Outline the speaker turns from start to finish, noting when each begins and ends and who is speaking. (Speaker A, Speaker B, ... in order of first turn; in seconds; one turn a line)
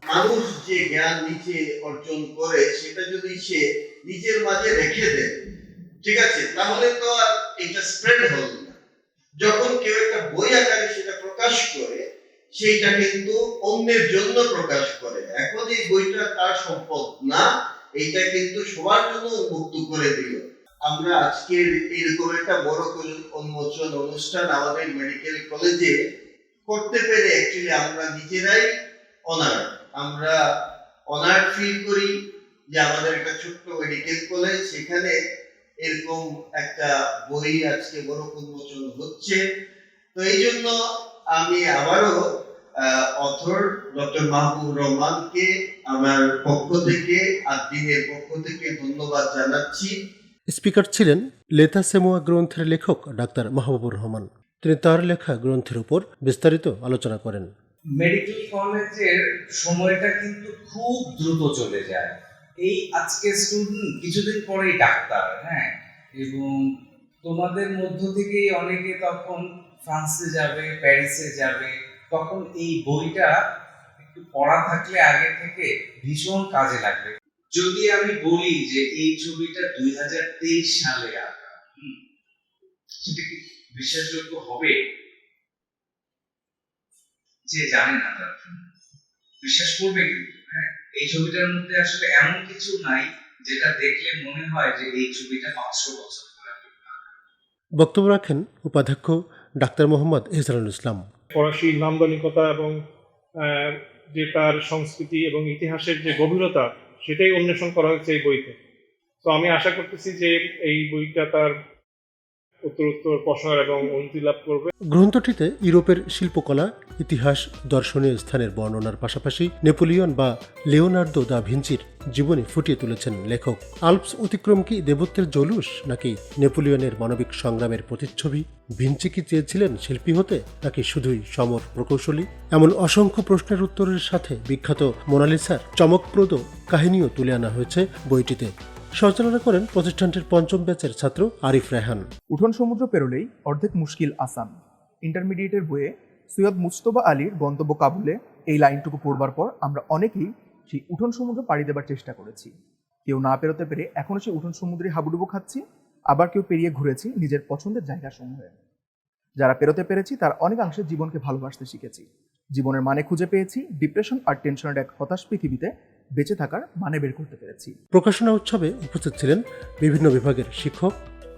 Speaker A: 0.1-5.3
Speaker A: 6.0-8.8
Speaker A: 9.4-12.0
Speaker A: 12.6-17.4
Speaker A: 18.0-25.9
Speaker A: 26.7-28.7
Speaker A: 29.3-30.3
Speaker A: 31.1-32.1
Speaker A: 32.7-35.1
Speaker A: 35.8-39.4
Speaker A: 40.1-40.8
Speaker A: 41.3-42.2
Speaker A: 42.8-50.0
Speaker B: 50.5-57.5
Speaker C: 58.0-66.6
Speaker C: 67.2-73.4
Speaker C: 74.0-82.0
Speaker C: 83.0-84.8
Speaker C: 87.5-88.6
Speaker C: 89.4-97.0
Speaker B: 97.8-101.0
Speaker D: 101.3-102.7
Speaker D: 103.4-108.5
Speaker D: 109.2-111.5
Speaker D: 112.7-114.7
Speaker B: 114.9-142.1
Speaker E: 142.3-152.5
Speaker E: 153.1-158.5
Speaker E: 159.4-167.7
Speaker B: 167.9-170.9